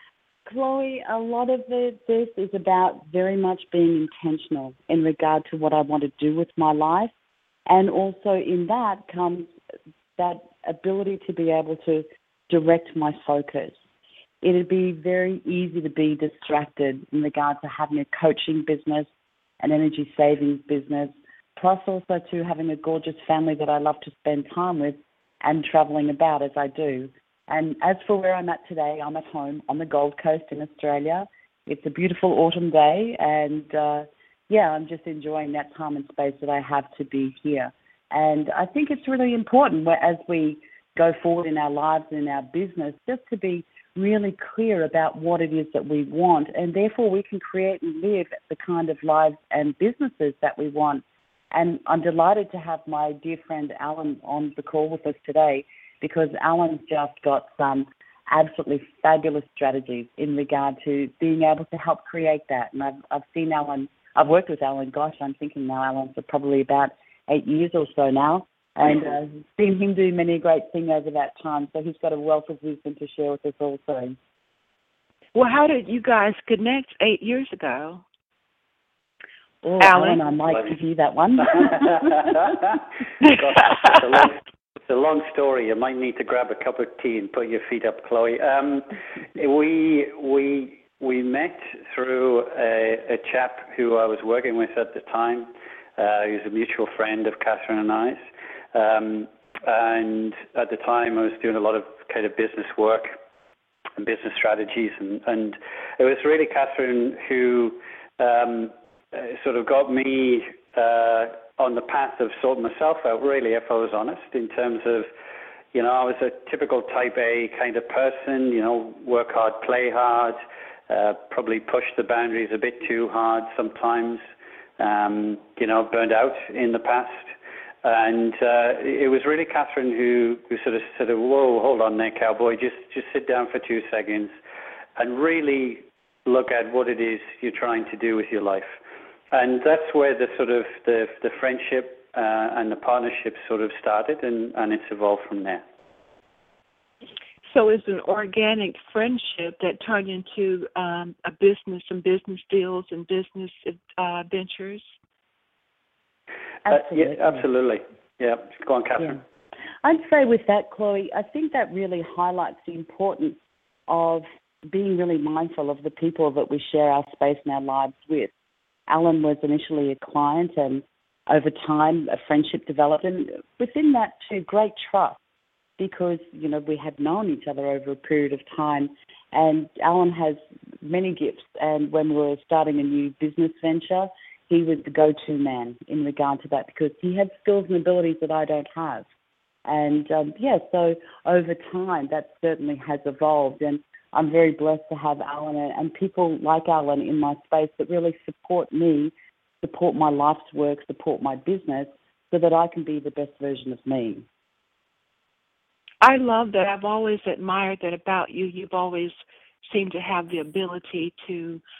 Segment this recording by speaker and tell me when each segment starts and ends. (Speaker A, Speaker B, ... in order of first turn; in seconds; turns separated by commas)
Speaker A: 0.5-7.1, Speaker A: 7.7-9.5, Speaker A: 10.2-13.8, Speaker A: 14.4-19.1, Speaker A: 19.6-74.2, Speaker B: 75.3-78.0, Speaker A: 79.6-82.3, Speaker B: 79.8-80.2, Speaker C: 81.8-82.6, Speaker C: 83.3-84.3, Speaker C: 84.9-98.2, Speaker C: 98.7-103.1, Speaker C: 104.0-115.1, Speaker C: 115.7-120.4, Speaker C: 120.9-124.2, Speaker C: 124.8-127.3, Speaker C: 127.8-134.3, Speaker C: 135.0-138.7, Speaker C: 139.3-145.6, Speaker B: 147.5-154.8, Speaker A: 156.7-157.4, Speaker C: 156.7-159.2, Speaker A: 159.8-168.3, Speaker A: 168.9-175.2, Speaker A: 175.8-189.1, Speaker A: 189.7-204.2, Speaker B: 206.0-209.1, Speaker B: 209.7-211.6